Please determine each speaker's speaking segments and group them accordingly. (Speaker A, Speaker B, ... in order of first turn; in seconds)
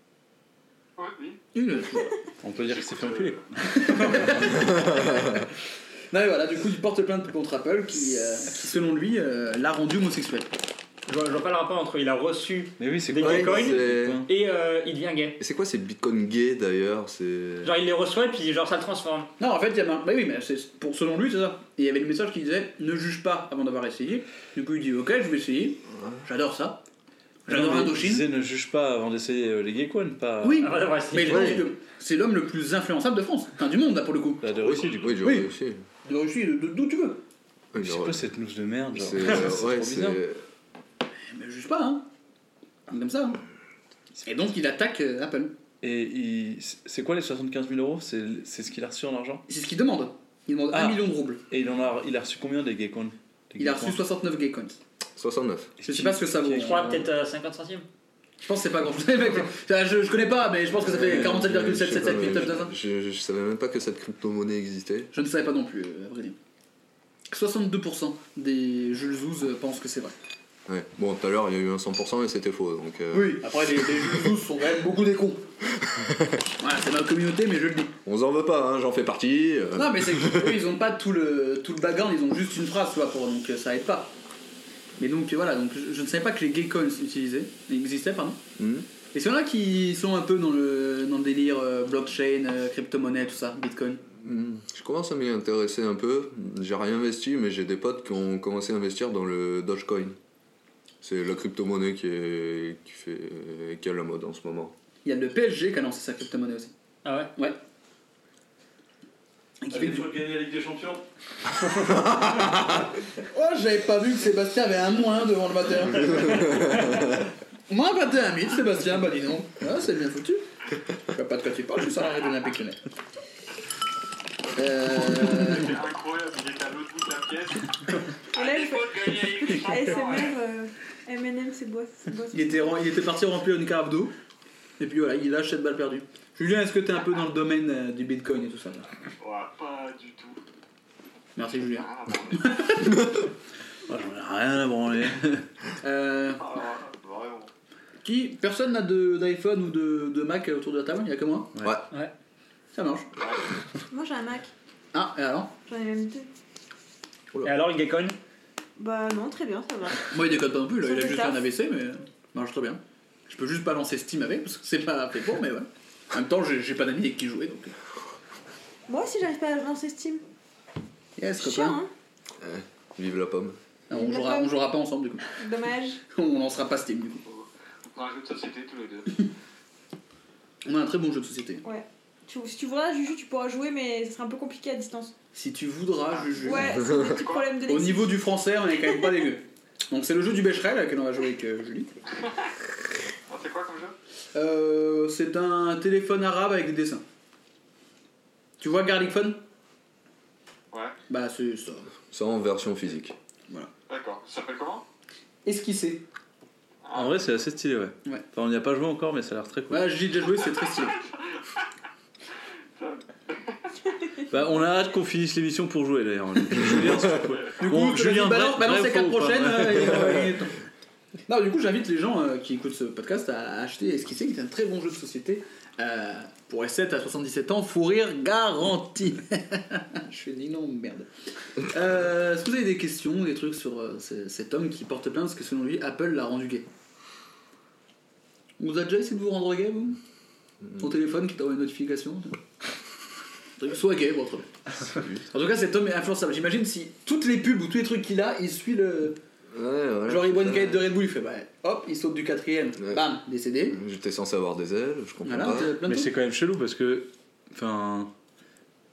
Speaker A: 1.0-1.4, 2.6-3.4, 124.8-127.8, 128.3-130.4, 139.2-140.4, 141.6-142.7, 146.4-147.5, 177.3-179.3, 186.2-187.5, 193.3-193.9, 203.9-204.8, 206.8-207.1, 210.6-210.8, 212.8-213.5, 217.3-217.5
Speaker B: 1.5-2.1, 3.6-5.4, 6.1-10.5, 19.4-26.8, 27.5-28.2, 30.4-34.5, 35.2-35.5, 36.0-37.2, 41.3-42.1, 42.9-43.4, 44.2-45.5, 49.5-51.4, 53.6-54.8, 55.8-57.0, 58.4-62.7, 65.1-66.4, 67.3-70.1, 73.1-75.4, 76.6-77.9, 79.7-84.1, 85.0-88.4, 89.1-94.0, 105.0-106.7, 109.6-110.1, 113.2-116.7, 117.7-120.4, 121.1-122.8, 124.5-125.7, 132.3-134.1, 134.8-138.9, 141.3-143.0, 145.8-146.4, 148.0-151.5, 152.7-153.1, 154.9-155.5, 160.1-167.7, 171.2-171.8, 173.9-175.3, 176.1-177.2, 180.6-181.6, 185.3-186.7, 187.7-191.9, 194.3-197.0, 198.6-199.4, 201.1-201.9, 205.4-206.0, 209.7-211.0, 217.6-220.5, 221.3-236.7, 238.6-240.0, 240.8-242.4, 243.6-244.7, 245.3-249.2, 250.1-253.8, 255.2-256.1
Speaker C: 2.4-4.6, 12.8-14.3, 27.5-30.9, 34.4-35.2, 37.7-40.2, 45.8-49.4, 50.7-54.0, 55.8-57.1, 61.0-62.3, 109.7-111.0, 143.9-145.4, 206.9-209.9, 214.3-220.2, 255.8-258.1
Speaker D: 4.8-5.2, 13.2-14.2, 15.4-17.7, 31.3-31.6, 34.6-35.8, 37.7-38.2, 38.9-40.4, 55.1-55.7, 60.9-65.1, 70.7-73.5, 75.8-76.4, 78.0-80.7, 88.6-88.9, 94.2-100.2, 101.0-104.7, 111.8-112.8, 116.2-117.0, 172.4-173.6, 202.1-203.2, 244.8-245.2, 249.5-250.9, 252.8-253.0, 253.7-255.8
Speaker E: 11.1-15.4, 17.6-19.3, 30.6-31.7, 56.6-57.9, 107.0-107.3, 116.2-116.6, 157.4-158.2
Speaker F: 128.3-132.8, 153.9-154.5, 155.7-156.3, 158.8-160.1, 160.8-161.4, 168.9-170.2, 171.4-171.9, 173.9-174.7, 175.3-176.0, 181.6-185.1, 186.4-188.3